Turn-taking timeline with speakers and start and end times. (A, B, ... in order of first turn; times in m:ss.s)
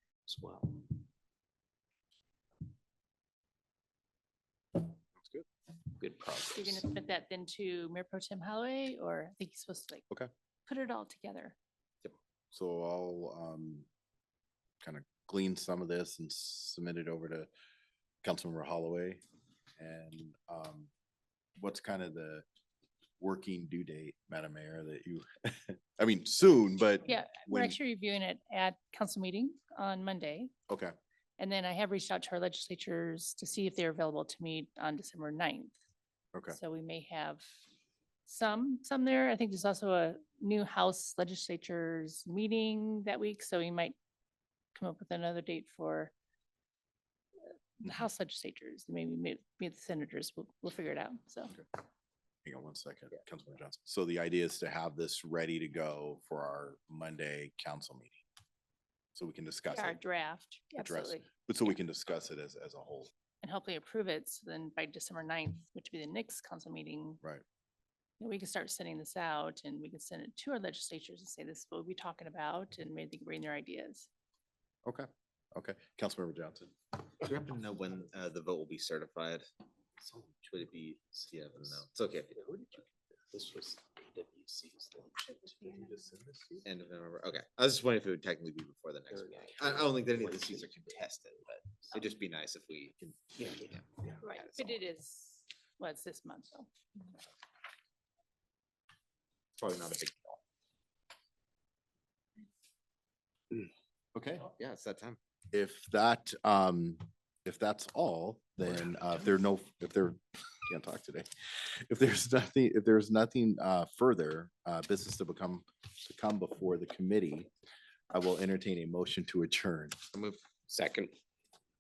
0:00.3-0:01.0 A
0:05.2-0:05.5 B
0:06.0-0:06.9 A
0:06.4-0:10.1 C
0:10.7-0:11.6 C
0:12.5-0:13.9 B
0:14.8-0:17.5 B
0:18.2-0:19.2 B
0:19.8-0:20.9 B
0:21.6-0:22.4 B
0:23.2-0:27.8 B
0:27.0-0:30.5 C
0:30.7-0:30.9 B
0:31.4-0:35.8 C
0:36.5-0:37.5 C
0:38.3-0:44.0 C
0:44.7-0:46.1 C
0:47.8-0:51.6 C
0:52.4-0:58.2 B
0:59.2-1:00.0 B
0:59.7-1:01.3 C
1:00.8-1:03.1 B
1:03.4-1:07.2 C
1:08.2-1:14.1 C
1:14.8-1:16.7 B
1:17.2-1:19.5 D
1:20.2-1:22.5 D
1:22.4-1:22.7 A
1:23.3-1:26.6 A
1:26.6-1:34.8 D
1:29.1-1:31.1 A
1:33.4-1:34.0 A
1:34.2-1:36.7 C
1:39.6-1:40.4 D
1:44.2-1:44.5 B
1:44.5-1:45.2 D
1:45.5-1:57.5 B
1:58.1-2:00.0 B
2:00.1-2:00.4 D
2:00.7-2:01.2 A